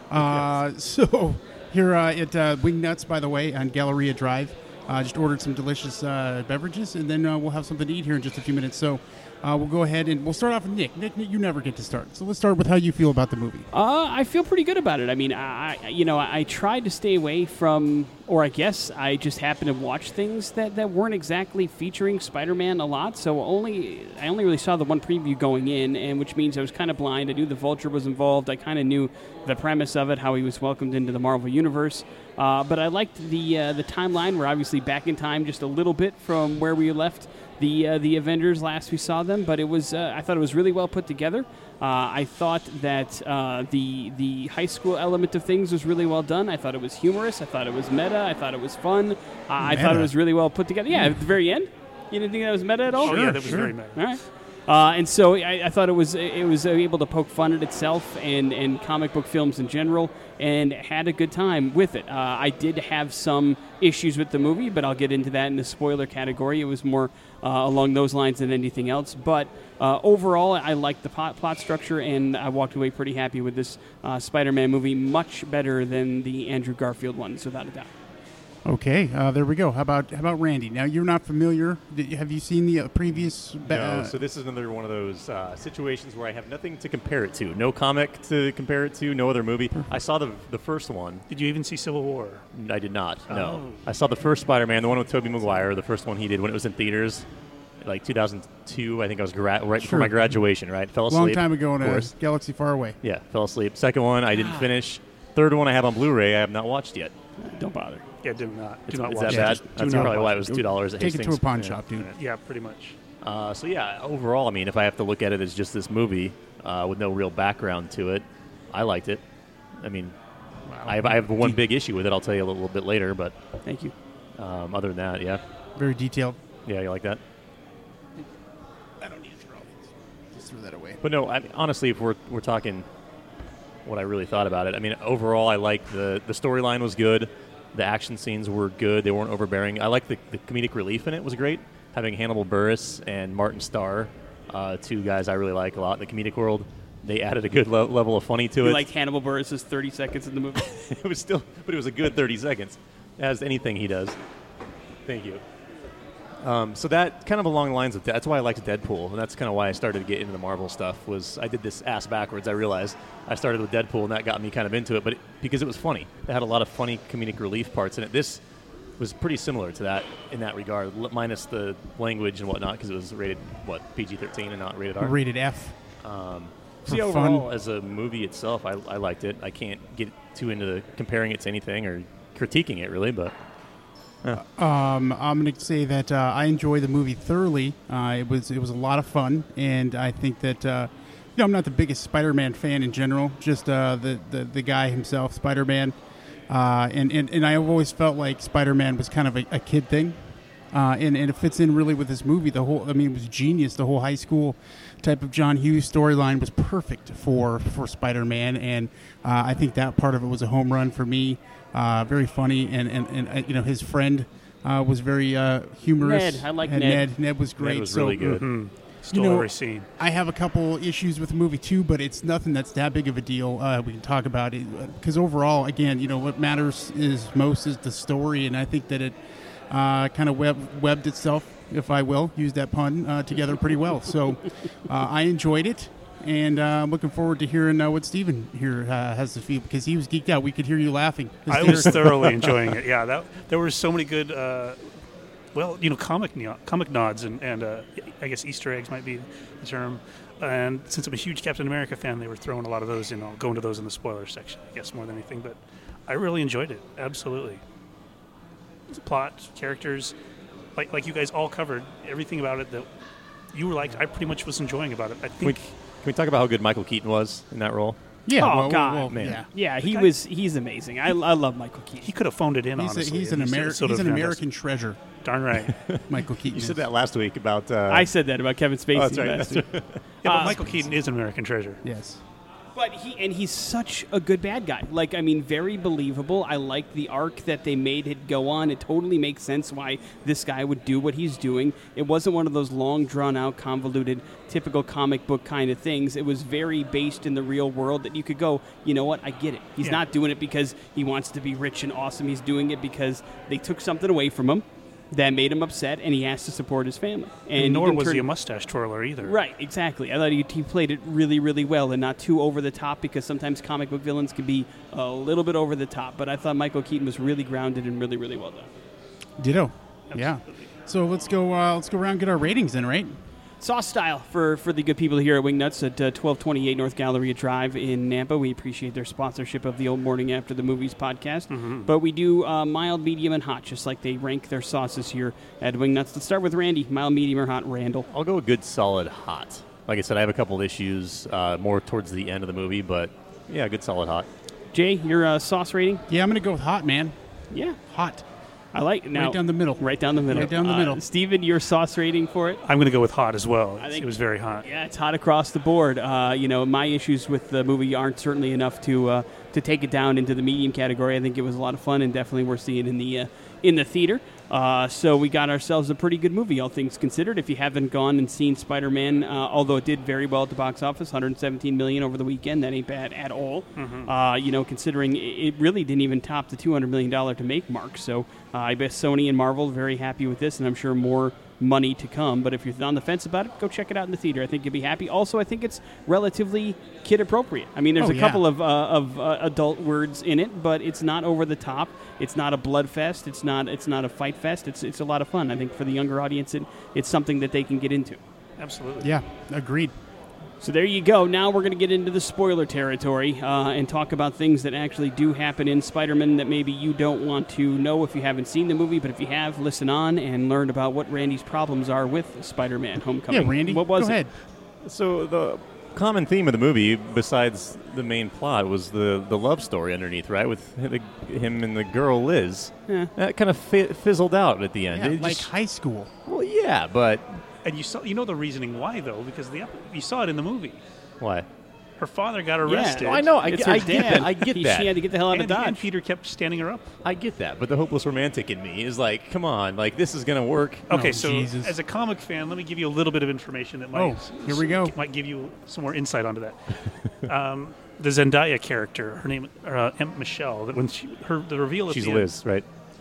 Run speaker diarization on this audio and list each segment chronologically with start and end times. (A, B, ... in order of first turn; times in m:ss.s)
0:00.1-0:13.7 A
0:00.2-0:00.5 B
0:13.7-1:17.9 C
0:49.6-0:50.1 A
0:53.0-0:53.8 A
0:53.0-0:54.0 D
1:18.6-1:24.2 A
1:23.6-1:31.2 B
1:31.3-1:32.5 D
1:32.5-1:37.3 B
1:33.3-1:33.9 D
1:37.8-1:42.1 B
1:39.8-1:40.2 A
1:41.1-1:43.0 A
1:43.0-1:47.1 B
1:47.4-1:48.0 C
1:48.2-1:50.4 D
1:48.9-1:51.8 B
1:49.3-1:52.1 A
1:52.0-1:53.0 D
1:53.2-1:59.2 B
1:59.8-2:00.2 B
2:00.7-2:01.6 A
2:00.8-2:03.4 B
2:03.6-2:03.9 C
2:04.4-2:05.4 B
2:05.8-2:06.4 A
2:06.7-2:07.2 B
2:09.0-2:11.0 A
2:11.0-2:12.9 B
2:13.8-2:28.9 B
2:28.6-2:30.7 C
2:30.6-2:34.2 B
2:35.0-2:35.4 B
2:36.4-2:48.4 B
2:49.0-2:55.2 B
2:55.0-2:55.8 A
2:56.0-3:03.4 B
2:56.8-2:57.5 A
3:04.3-3:16.0 A
3:16.5-3:20.2 A
3:20.7-3:38.5 A
3:36.0-3:37.1 C
3:37.6-3:38.4 B
3:38.4-3:39.9 D
3:39.1-3:49.2 A
3:49.7-4:02.6 A
4:01.5-4:04.9 D
4:05.6-4:17.6 D
4:18.9-4:20.1 D
4:20.8-4:22.9 D
4:23.5-4:25.7 D
4:25.4-4:28.0 B
4:28.3-4:29.5 A
4:28.4-4:32.1 C
4:29.1-4:29.4 B
4:29.8-4:30.1 D
4:32.0-4:34.4 D
4:32.8-4:35.0 A
4:35.2-4:35.7 D
4:35.7-4:38.1 B
4:36.1-4:36.8 A
4:37.9-4:39.7 C
4:38.9-4:40.0 B
4:40.2-4:40.6 C
4:40.2-4:41.8 D
4:40.3-4:40.9 A
4:41.8-4:42.2 A
4:42.8-5:08.2 C
5:07.6-5:09.4 D
5:09.2-5:18.7 C
5:19.4-5:23.1 A
5:20.1-5:20.7 D
5:23.6-5:38.1 C
5:31.5-5:31.9 D
5:38.1-5:44.3 B
5:44.7-5:46.0 C
5:46.1-5:47.2 A
5:47.5-5:47.8 C
5:47.9-5:48.2 A
5:48.7-5:52.6 C
5:49.1-5:51.0 A
5:52.6-5:54.7 D
5:53.8-5:54.1 C
5:54.6-6:38.2 C
6:13.8-6:14.1 D
6:28.0-6:28.4 A
6:38.6-6:39.1 D
6:39.0-6:39.9 A
6:40.6-6:54.2 C
6:53.3-6:54.3 A
6:54.8-7:05.5 B
7:04.9-7:06.1 A
7:06.3-7:07.4 B
7:07.6-7:10.8 D
7:11.2-7:11.5 B
7:12.0-7:13.4 D
7:12.6-7:15.8 C
7:12.9-7:14.9 B
7:15.3-7:16.9 D
7:17.0-7:20.9 B
7:20.9-7:21.7 A
7:20.9-7:32.3 D
7:23.9-7:24.9 A
7:31.9-7:32.6 B